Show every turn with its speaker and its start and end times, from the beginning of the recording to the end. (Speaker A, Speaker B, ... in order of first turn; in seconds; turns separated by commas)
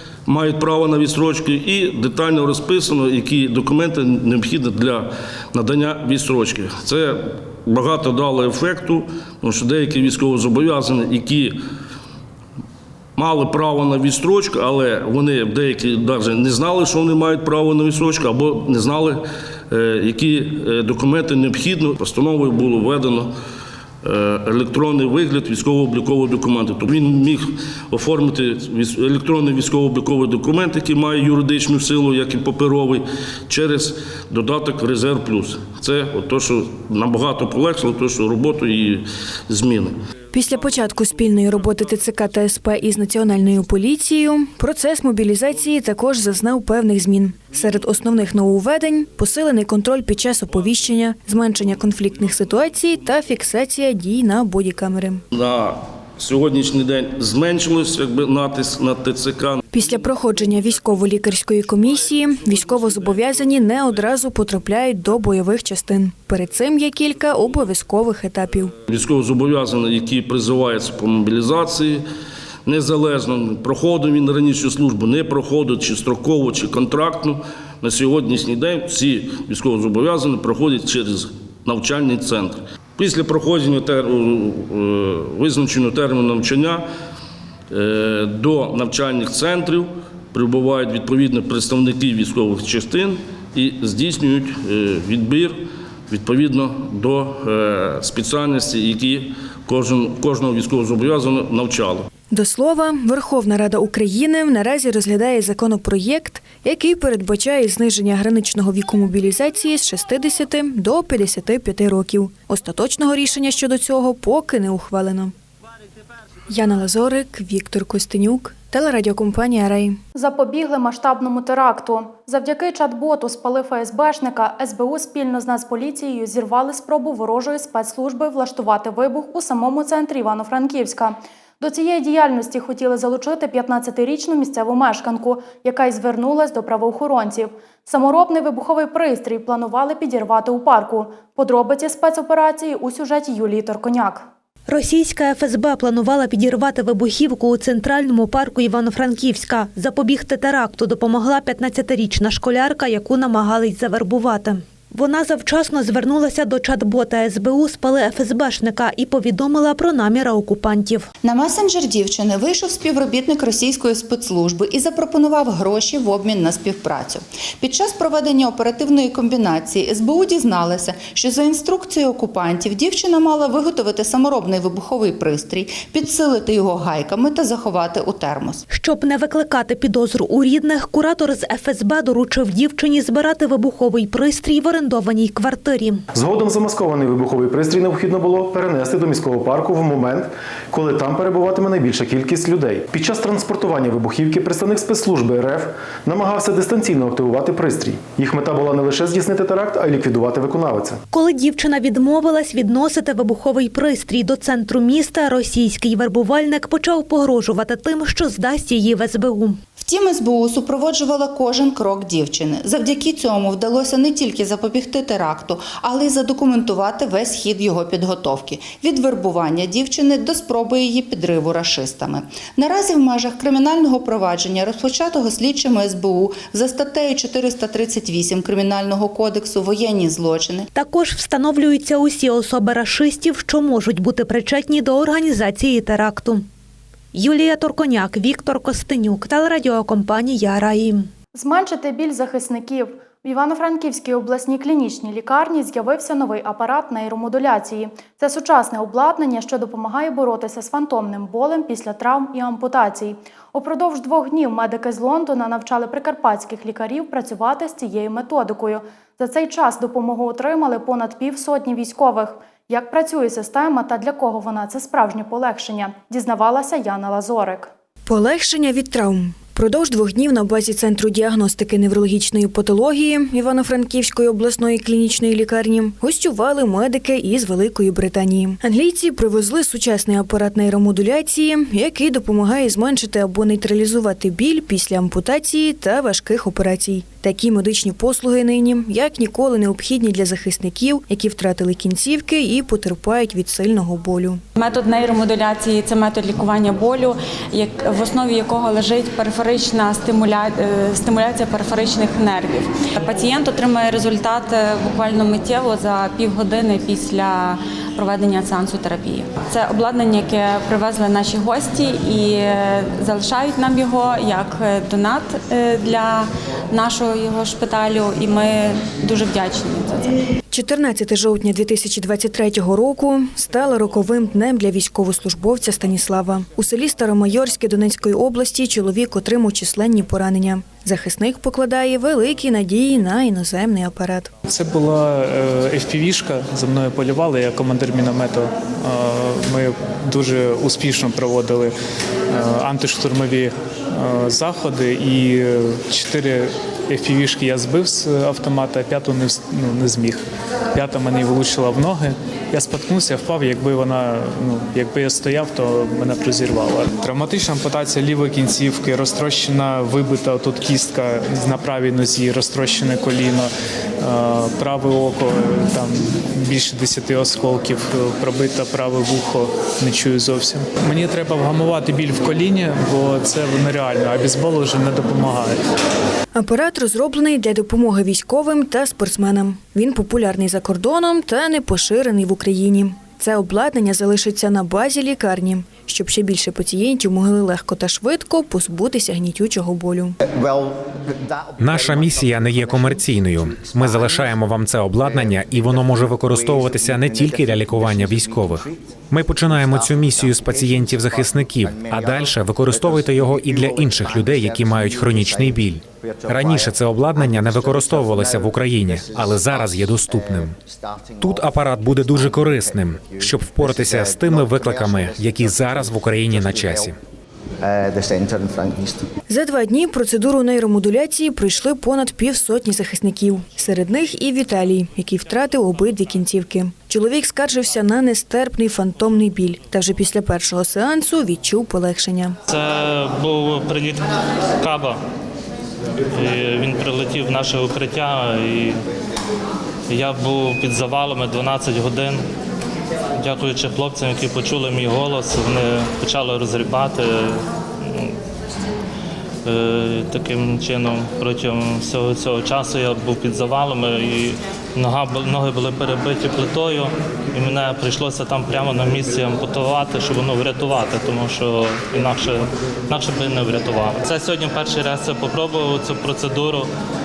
Speaker A: 0.2-11.6, Speaker A: 13.2-23.3, Speaker A: 24.0-39.9, Speaker B: 40.3-55.2, Speaker A: 55.3-59.6, Speaker B: 59.7-68.7, Speaker A: 68.9-72.0, Speaker A: 72.7-86.8, Speaker A: 87.7-102.0, Speaker B: 102.3-115.3, Speaker B: 116.5-120.0, Speaker C: 120.1-144.2, Speaker D: 144.7-161.1, Speaker E: 161.2-178.6, Speaker D: 178.7-186.0, Speaker F: 186.1-201.0, Speaker D: 201.1-209.6, Speaker E: 209.8-230.7, Speaker D: 230.7-236.5, Speaker D: 237.1-241.1, Speaker C: 241.3-267.7, Speaker B: 268.1-294.4, Speaker G: 294.6-320.2, Speaker B: 320.5-334.3, Speaker H: 334.4-341.7, Speaker H: 342.3-375.6, Speaker B: 376.3-390.2, Speaker I: 391.6-410.6, Speaker I: 411.2-417.0, Speaker B: 419.3-432.4, Speaker J: 432.5-434.1, Speaker J: 434.6-435.0, Speaker J: 436.1-438.8, Speaker J: 439.9-442.2, Speaker J: 443.1-448.2, Speaker J: 449.4-466.7